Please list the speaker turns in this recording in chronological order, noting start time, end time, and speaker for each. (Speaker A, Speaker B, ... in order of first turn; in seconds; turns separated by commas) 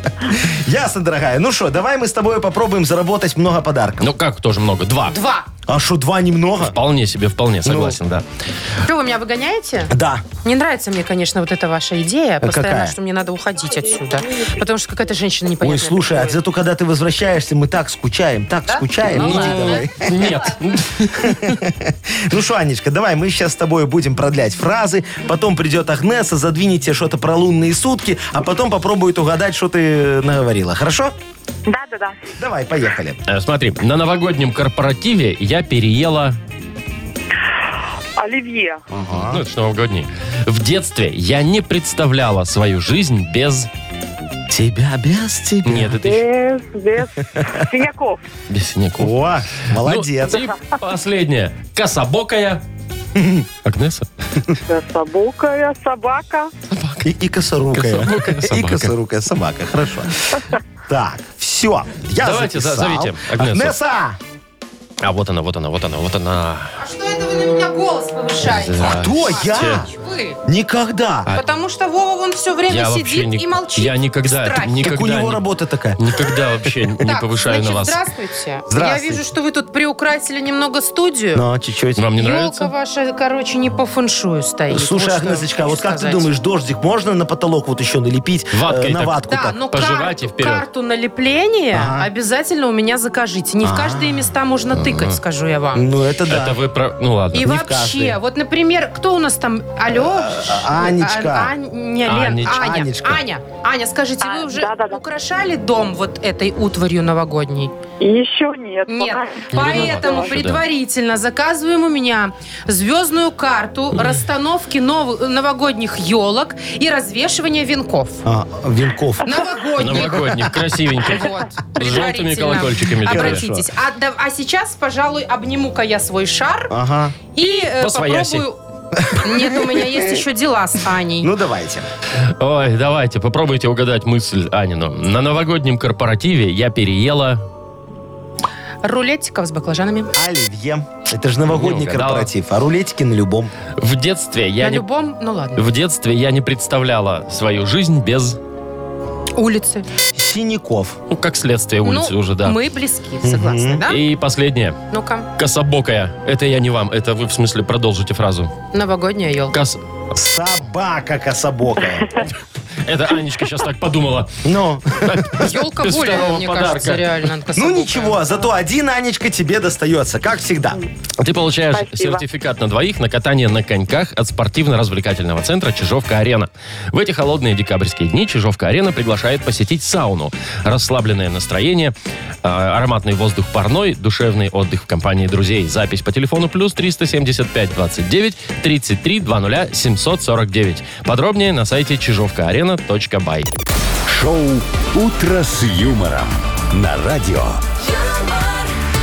Speaker A: 0.2-4.1, Speaker B: 4.0-5.2, Speaker C: 5.1-5.5, Speaker A: 5.7-6.8, Speaker B: 6.6-8.2, Speaker A: 7.7-8.0, Speaker C: 8.8-9.9, Speaker A: 9.9-10.2, Speaker C: 10.4-16.4, Speaker A: 12.4-12.9, Speaker A: 15.6-20.5, Speaker C: 18.7-20.6, Speaker B: 19.1-21.6, Speaker A: 21.2-31.1, Speaker D: 31.7-32.3, Speaker A: 32.4-33.2, Speaker B: 33.3-36.4, Speaker D: 38.2-38.8, Speaker A: 38.9-39.4, Speaker B: 39.2-43.7, Speaker A: 44.5-45.9, Speaker B: 45.7-46.2, Speaker D: 45.9-48.2, Speaker B: 48.5-52.6, Speaker A: 49.0-50.5, Speaker A: 53.1-53.5, Speaker B: 53.6-54.1, Speaker D: 54.7-56.5, Speaker B: 56.7-57.1, Speaker A: 57.0-64.2, Speaker B: 57.7-58.9, Speaker B: 62.2-63.8, Speaker B: 65.0-66.8, Speaker C: 66.8-70.4, Speaker B: 68.5-69.8, Speaker A: 68.8-69.9, Speaker A: 70.5-71.3, Speaker C: 71.3-74.9, Speaker B: 72.7-75.4, Speaker A: 74.8-76.2, Speaker B: 76.0-78.0, Speaker C: 77.0-81.5, Speaker A: 78.7-79.2, Speaker A: 81.3-82.1, Speaker B: 82.0-82.7, Speaker C: 82.2-86.3, Speaker A: 84.7-89.6, Speaker B: 88.5-89.2, Speaker C: 89.3-95.8, Speaker B: 89.7-90.7, Speaker A: 91.7-92.1, Speaker A: 93.6-94.3, Speaker B: 94.7-95.2, Speaker A: 95.8-96.6, Speaker B: 96.3-97.5, Speaker A: 97.3-98.2, Speaker C: 97.4-107.7, Speaker A: 99.9-101.5, Speaker B: 102.1-102.7, Speaker A: 102.5-103.2, Speaker D: 104.2-105.0, Speaker D: 108.0-110.3, Speaker C: 108.9-118.2, Speaker B: 109.5-110.6, Speaker A: 118.2-120.5, Speaker C: 119.2-120.5, Speaker B: 119.8-123.5, Speaker C: 121.1-126.7, Speaker A: 123.0-123.7, Speaker A: 126.7-127.2, Speaker C: 127.3-128.6, Speaker B: 127.7-128.4, Speaker A: 129.0-130.2, Speaker C: 129.1-131.3, Speaker A: 131.2-131.9, Speaker B: 132.2-137.4, Speaker C: 138.8-140.1, Speaker A: 140.2-143.5, Speaker B: 141.5-142.3, Speaker B: 143.8-144.9, Speaker C: 144.6-145.6, Speaker B: 145.6-148.4, Speaker C: 149.4-149.9, Speaker A: 150.1-151.0, Speaker B: 151.1-152.6, Speaker C: 151.8-154.0, Speaker A: 153.2-153.8, Speaker B: 153.9-154.8, Speaker C: 154.9-155.3, Speaker B: 155.4-158.5, Speaker C: 158.7-159.6, Speaker B: 159.5-159.8, Speaker A: 160.1-162.3, Speaker B: 162.8-164.3, Speaker A: 164.4-165.3, Speaker B: 165.0-167.3, Speaker C: 165.4-168.4, Speaker A: 167.6-170.8, Speaker B: 171.2-193.5, Speaker D: 171.7-172.2, Speaker E: 194.1-197.6